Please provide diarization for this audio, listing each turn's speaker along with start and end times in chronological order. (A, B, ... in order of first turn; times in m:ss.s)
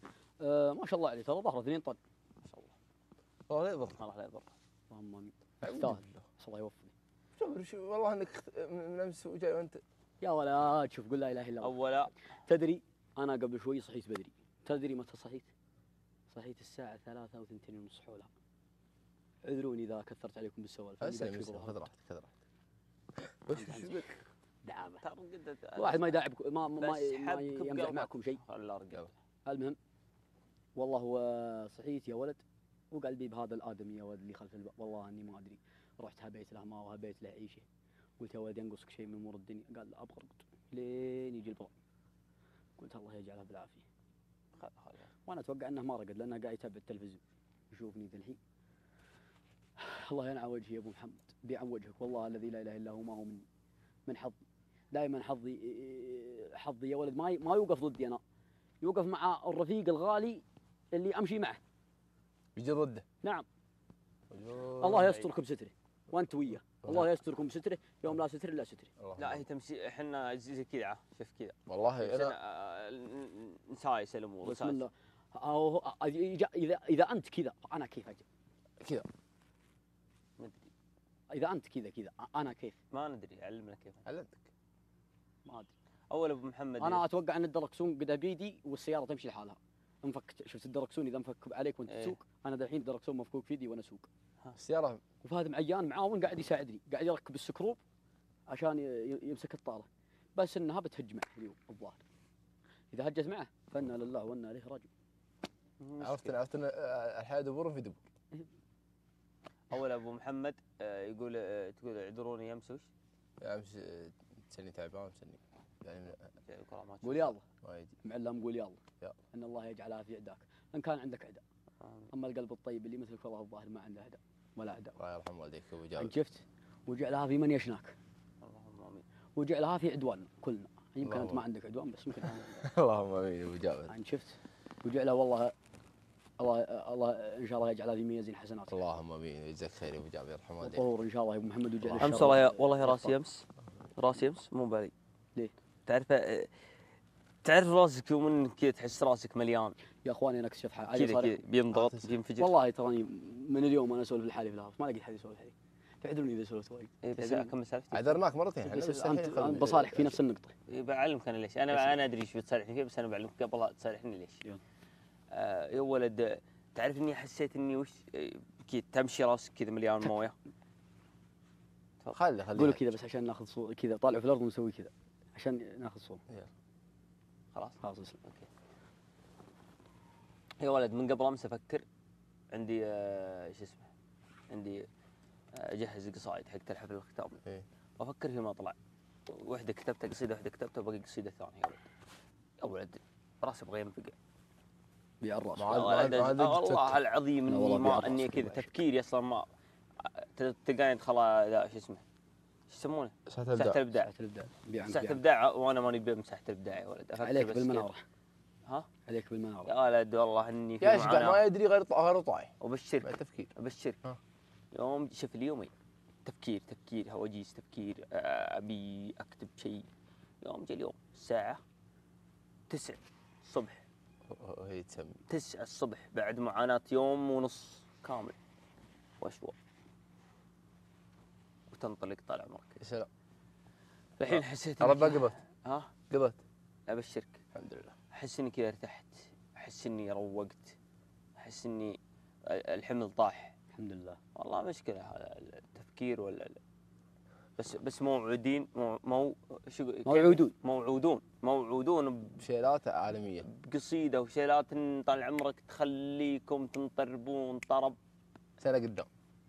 0:00.4-0:02.0 A
0:03.5-0:04.0 B
0:04.0-0:04.5 C
0:04.9-0:06.9 A
0:05.6-0:06.2 B
0:07.4-0:09.8 B
0:10.2-0:11.9 A
0:11.6-0:12.1 C
0:12.4-0:15.5 A
0:16.3-0:18.3 A
0:19.4-0:21.8 A
0:21.0-0:22.3 B
0:23.2-0:24.0 B
0:23.5-0:25.0 A
0:25.0-0:26.2 C
0:25.8-0:28.4 A
0:26.8-0:29.1 C
0:29.4-0:29.8 A
0:30.8-0:37.6 A
0:38.2-0:41.7 A
0:42.8-0:43.8 A
0:44.6-0:45.1 C
0:45.3-0:48.4 A
0:49.8-0:53.4 A
0:54.1-0:54.4 A
0:54.9-0:58.2 A
0:58.8-1:01.6 A
1:02.6-1:03.0 B
1:04.3-1:05.1 B
1:04.8-1:08.9 A
1:04.8-1:05.3 C
1:06.7-1:07.1 B
1:09.0-1:09.4 B
1:09.2-1:14.8 C
1:11.7-1:12.4 B
1:14.4-1:18.2 A
1:18.8-1:19.1 B
1:20.4-1:20.7 C
1:21.3-1:22.8 A
1:22.9-1:24.0 C
1:24.1-1:24.5 B
1:26.1-1:27.0 C
1:26.8-1:34.1 A
1:31.9-1:32.2 C
1:34.6-1:35.0 B
1:35.2-1:37.8 A
1:38.5-1:42.0 A
1:42.9-1:44.9 A
1:45.8-1:46.4 C
1:46.0-1:48.0 B
1:49.7-1:52.9 C
1:53.4-1:56.2 B
1:56.5-1:57.3 C
1:57.0-1:57.4 A
1:57.6-1:57.9 B
1:58.0-1:58.8 A
1:59.3-2:01.4 A
2:01.8-2:02.1 C
2:02.1-2:05.0 A
2:05.0-2:06.1 B
2:06.0-2:08.0 A
2:08.4-2:09.0 C
2:09.4-2:12.6 A
2:11.0-2:11.5 B
2:12.2-2:13.9 B
2:13.9-2:15.5 A
2:16.4-2:18.9 A
2:18.7-2:20.9 B
2:20.6-2:23.2 A
2:21.8-2:22.4 B
2:22.0-2:23.4 C
2:24.0-2:24.9 C
2:25.9-2:26.5 C
2:27.4-2:29.8 C
2:30.0-2:31.4 A
2:30.9-2:32.5 C
2:31.7-2:32.2 B
2:32.4-2:37.5 A
2:37.0-2:38.2 C
2:37.9-2:40.2 B
2:38.6-2:40.5 A
2:40.7-2:44.4 C
2:45.3-2:50.4 C
2:52.1-2:53.0 B
2:52.6-2:56.2 A
2:57.5-2:58.5 C
2:57.8-2:58.2 A
3:00.6-3:01.8 C
3:02.5-3:03.9 C
3:04.5-3:04.9 C
3:05.6-3:07.4 C
3:08.0-3:08.8 C
3:09.3-3:11.8 C
3:12.6-3:14.2 C
3:15.2-3:15.9 A
3:15.6-3:17.0 B
3:15.7-3:19.5 C
3:17.5-3:18.7 A
3:20.0-3:22.0 C
3:22.7-3:24.1 C
3:23.3-3:23.8 B
3:24.0-3:25.2 A
3:24.9-3:27.9 C
3:27.2-3:28.0 A
3:29.1-3:29.7 A
3:29.7-3:31.4 C
3:30.8-3:33.5 B
3:32.6-3:34.0 C
3:34.7-3:35.7 C
3:36.3-3:39.9 C
3:40.4-3:41.6 C
3:42.7-3:43.8 C
3:44.3-3:45.2 B
3:45.3-3:48.4 C
3:49.2-3:49.6 C
3:51.7-3:52.8 C
3:52.8-3:53.1 B
3:54.2-3:55.9 C
3:54.3-3:55.4 B
3:56.1-3:56.4 B
3:56.9-3:57.4 C
3:57.5-3:58.0 B
3:58.1-4:00.8 C
4:01.4-4:03.5 C
4:03.8-4:04.2 A
4:04.4-4:06.6 C
4:07.6-4:12.4 C
4:10.0-4:10.5 A
4:12.4-4:13.5 B
4:13.4-4:18.0 C
4:18.6-4:19.1 B